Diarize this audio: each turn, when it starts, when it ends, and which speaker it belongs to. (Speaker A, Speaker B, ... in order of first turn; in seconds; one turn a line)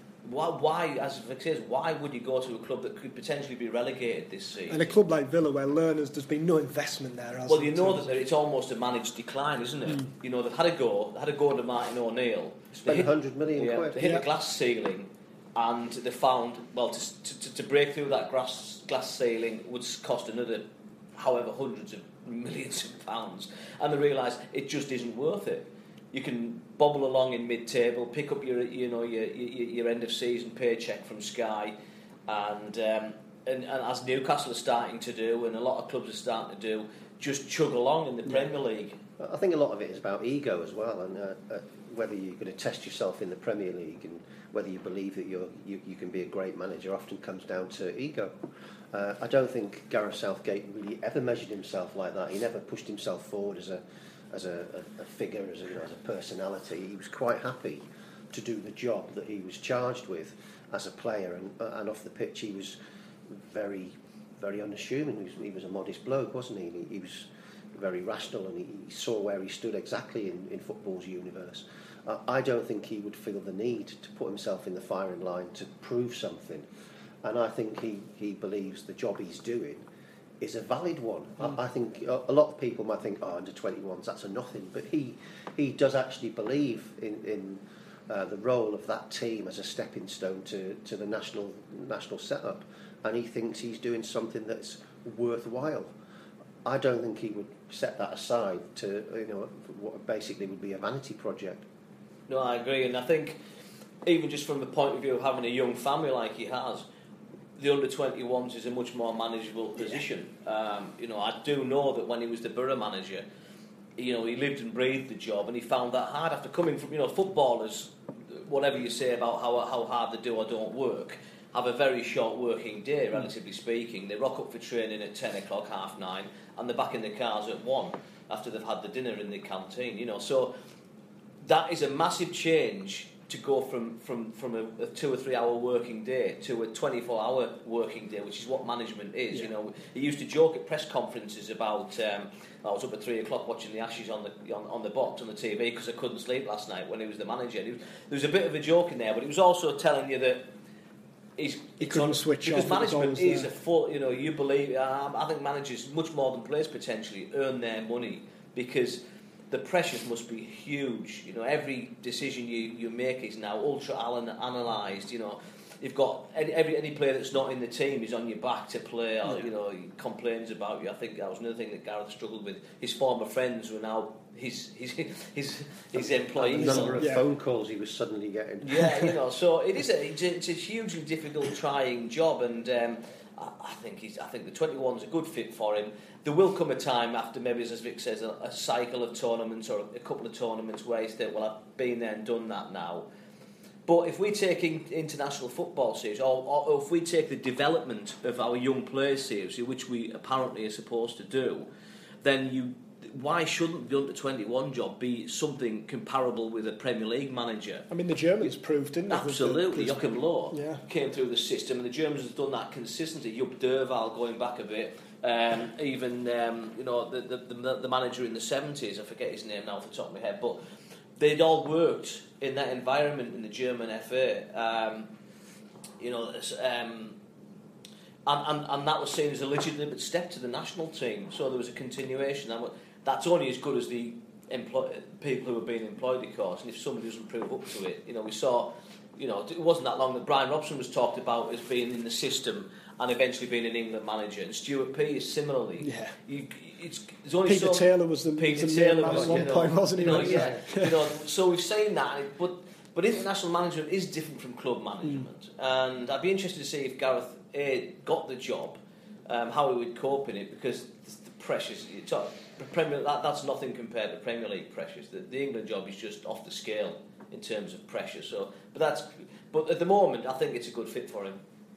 Speaker A: 0.2-5.0
Speaker B: 4.7-8.1
Speaker A: 7.5-31.8
Speaker C: 12.8-14.0
Speaker A: 32.3-39.0
Speaker C: 39.2-48.3
Speaker C: 48.9-62.8
Speaker C: 63.3-76.7
Speaker C: 77.2-79.8
Speaker C: 80.4-95.9
Speaker C: 96.7-101.7
Speaker A: 102.3-103.4
Speaker A: 104.0-106.9
Speaker A: 107.6-113.2
Speaker A: 114.0-130.6
Speaker A: 131.4-150.5
Speaker A: 151.4-177.1
Speaker B: 151.8-153.5
Speaker C: 176.4-178.9
Speaker B: 176.6-177.2
Speaker A: 178.6-193.1
Speaker A: 193.9-201.7
Speaker A: 202.2-207.9
Speaker B: 207.9-210.8
Speaker A: 209.1-220.6
Speaker A: 221.2-225.1
Speaker A: 226.0-227.2
Speaker A: 228.3-271.4
Speaker B: 245.8-246.1
Speaker B: 247.4-251.0
Speaker C: 249.2-249.5